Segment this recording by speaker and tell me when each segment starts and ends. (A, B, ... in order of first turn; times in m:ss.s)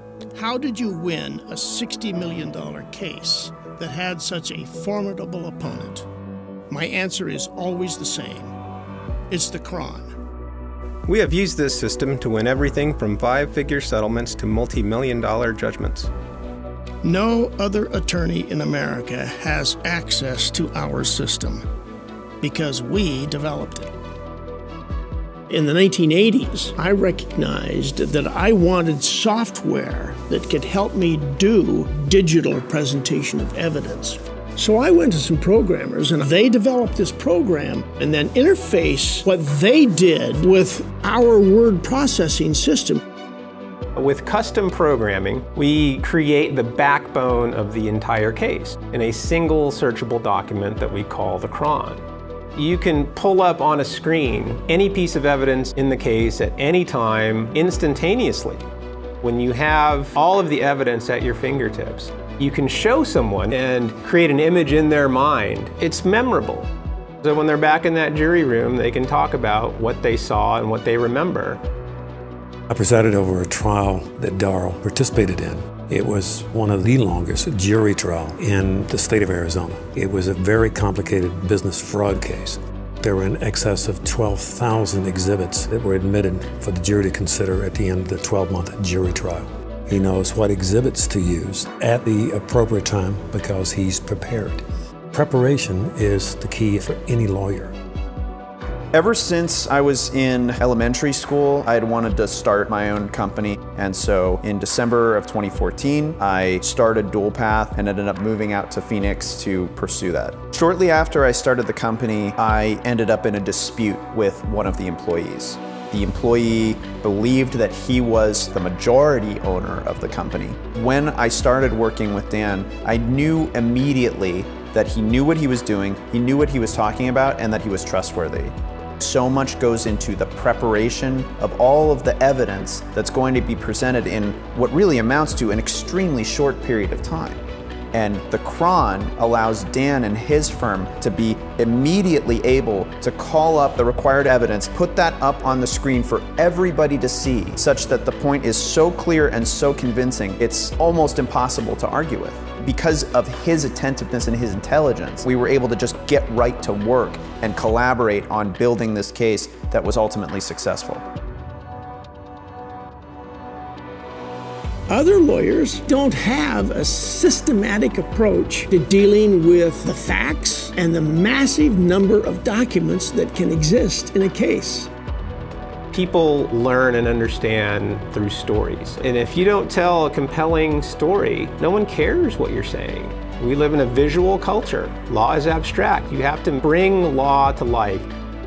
0:00.3-0:06.0 A
0:06.7-0:08.6 A
0:09.3-0:10.1 A
0:11.1-0:16.1 B
0:17.0-0:21.6 A
0:22.4-0:23.9 A
0:25.5-0:43.0 A
0:43.9-0:52.0 B
0:52.5-0:58.6 B
0:59.2-1:06.7 B
1:07.2-1:11.6 B
1:12.7-1:37.7 C
1:38.9-2:17.4 D
2:17.9-2:41.0 D
2:44.9-2:54.9 A
2:55.9-3:08.1 B